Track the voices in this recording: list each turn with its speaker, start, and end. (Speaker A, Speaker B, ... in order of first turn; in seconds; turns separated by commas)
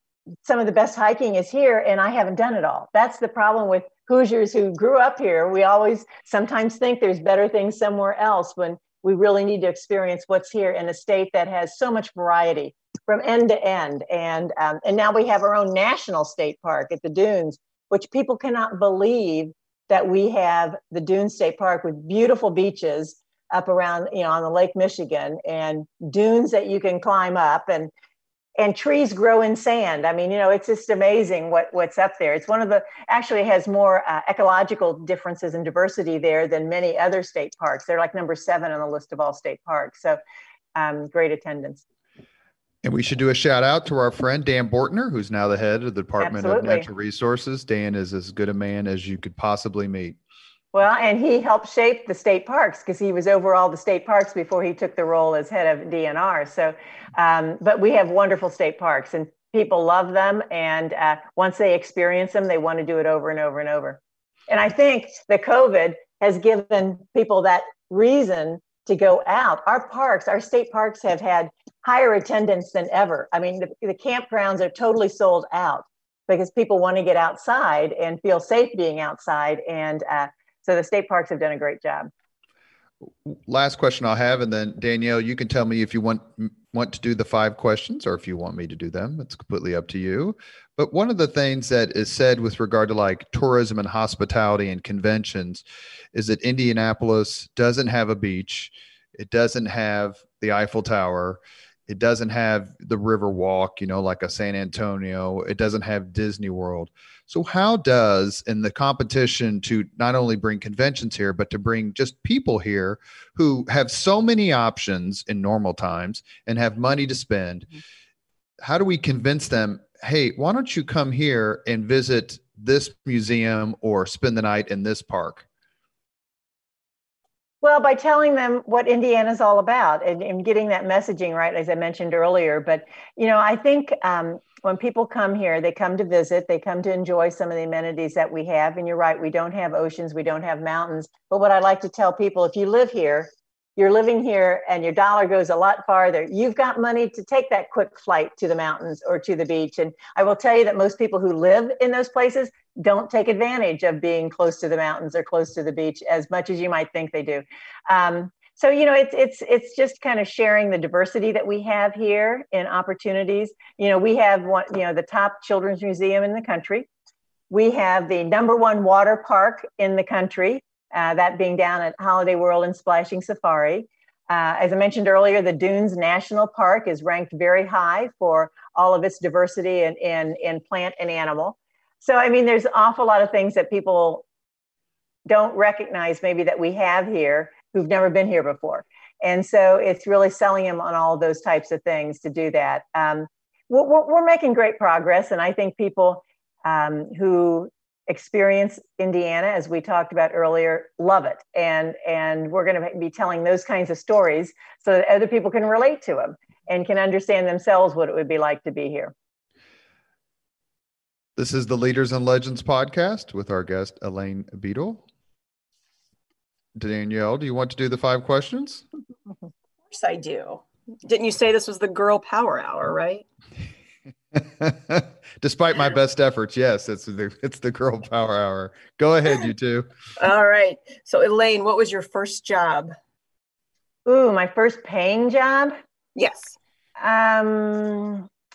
Speaker A: 0.4-27.9, Speaker A: 28.6-40.2, Speaker A: 40.8-41.8, Speaker B: 42.8-50.2, Speaker A: 46.2-46.9, Speaker A: 50.7-82.1, Speaker B: 83.2-117.7, Speaker B: 118.6-125.5, Speaker A: 127.6-166.9, Speaker A: 167.5-184.2, Speaker A: 185.3-209.1, Speaker B: 211.4-215.0, Speaker B: 216.8-218.8, Speaker C: 219.9-223.2, Speaker B: 224.3-229.9, Speaker C: 230.2-232.9, Speaker A: 234.1-235.7, Speaker C: 236.1-236.6, Speaker A: 237.0-238.3